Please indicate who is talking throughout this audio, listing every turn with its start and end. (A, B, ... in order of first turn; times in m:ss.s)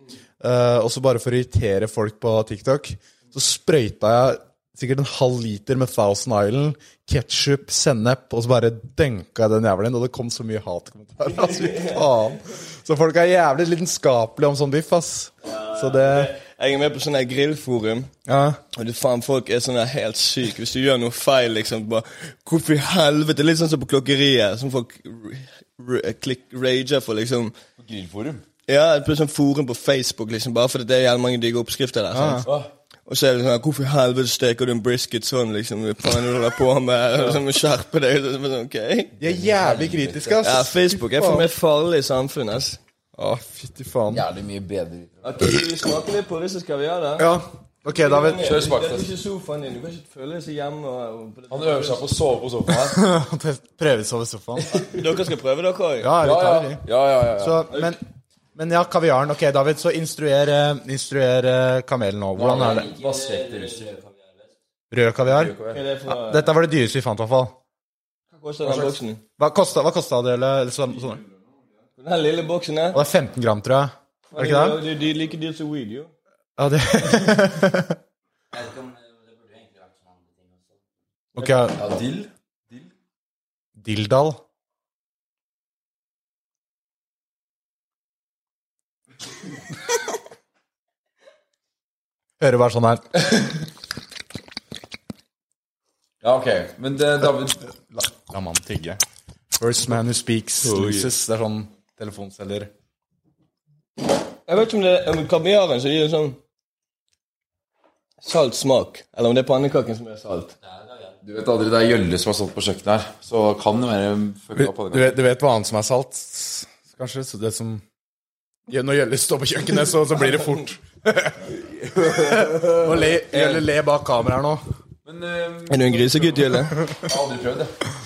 0:00.4-0:16.3 A
0:11.2-0:12.1 B
0:15.4-0:18.1 B
0:18.2-0:18.6 A
0:18.7-0:27.5 B
0:27.8-0:28.4 C
0:28.7-0:32.5 B
0:32.1-0:32.5 A
0:32.4-0:32.7 C
0:33.1-0:39.1 B
0:39.2-0:41.5 A
0:39.2-0:40.4 C
0:40.4-0:42.8 B
0:43.1-0:44.2 A
0:44.1-0:45.5 C
0:45.2-0:47.3 B
0:47.2-0:48.5 A
0:47.9-0:52.0 B
0:48.4-0:49.1 C
0:51.5-0:53.0 C
0:52.7-0:54.8 A
0:54.7-0:56.1 B
0:56.0-0:56.8 A
0:56.2-0:57.7 C
0:57.4-0:58.0 A
0:58.5-1:02.9 A
1:02.3-1:04.0 C
1:03.0-1:04.2 D
1:04.9-1:05.5 A
1:05.2-1:05.8 C
1:05.7-1:06.5 B
1:06.1-1:07.6 A
1:08.3-1:09.2 B
1:08.6-1:09.0 C
1:09.4-1:11.2 A
1:12.0-1:13.0 B
1:12.9-1:14.8 A
1:14.3-1:16.1 B
1:16.6-1:18.0 A
1:18.5-1:18.9 D
1:19.5-1:20.0 D
1:21.4-1:21.8 A
1:21.7-1:22.9 C
1:23.8-1:24.4 A
1:32.4-1:33.2 A
1:36.2-1:37.6 C
1:37.9-1:39.0 A
1:39.6-1:42.7 A
1:40.6-1:41.1 C
1:44.5-1:46.4 B
1:48.2-1:50.6 B
1:51.2-1:55.2 C
1:54.6-1:57.8 A
1:58.7-2:01.5 A
2:01.6-2:03.2 C
2:02.1-2:04.6 A
2:05.0-2:07.7 C
2:05.7-2:06.8 B